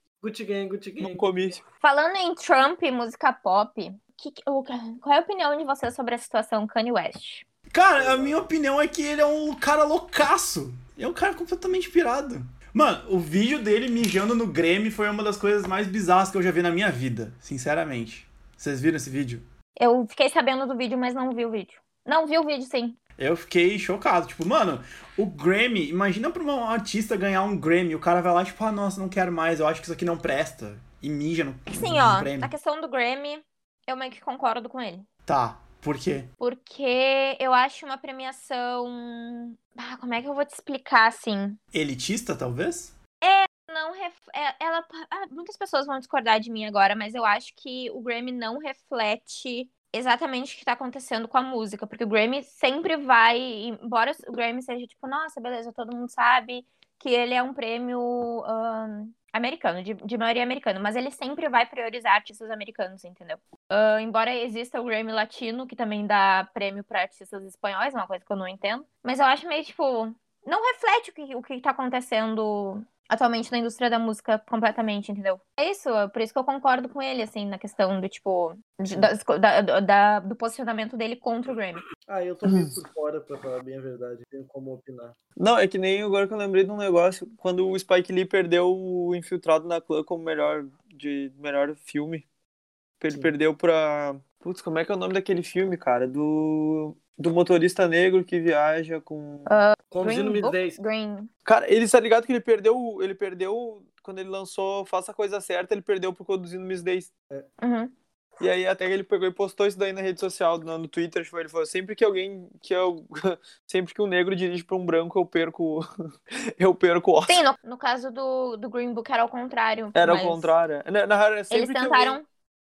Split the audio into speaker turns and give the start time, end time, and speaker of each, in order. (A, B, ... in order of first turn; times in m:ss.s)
0:00.2-0:01.6 A
0:01.0-0:01.6 B
0:01.8-0:07.4 C
0:07.7-0:19.4 D
0:08.0-0:08.4 A
0:19.8-0:23.0 C
0:23.2-0:32.5 D
0:31.7-0:35.1 C
0:35.3-0:36.3 D
0:36.4-0:41.6 C
0:41.7-0:42.9 D
0:43.2-1:21.9 C
1:22.0-1:25.2 A
1:22.4-1:22.7 B
1:25.4-1:32.2 B
1:33.0-1:39.6 B
1:39.5-1:41.3 C
1:39.9-1:40.8 A
1:41.4-1:47.1 B
1:47.6-1:47.9 C
1:48.4-1:55.9 B
1:56.6-1:57.4 B
1:57.3-2:00.5 C
2:00.0-2:02.2 B
2:01.5-2:02.2 C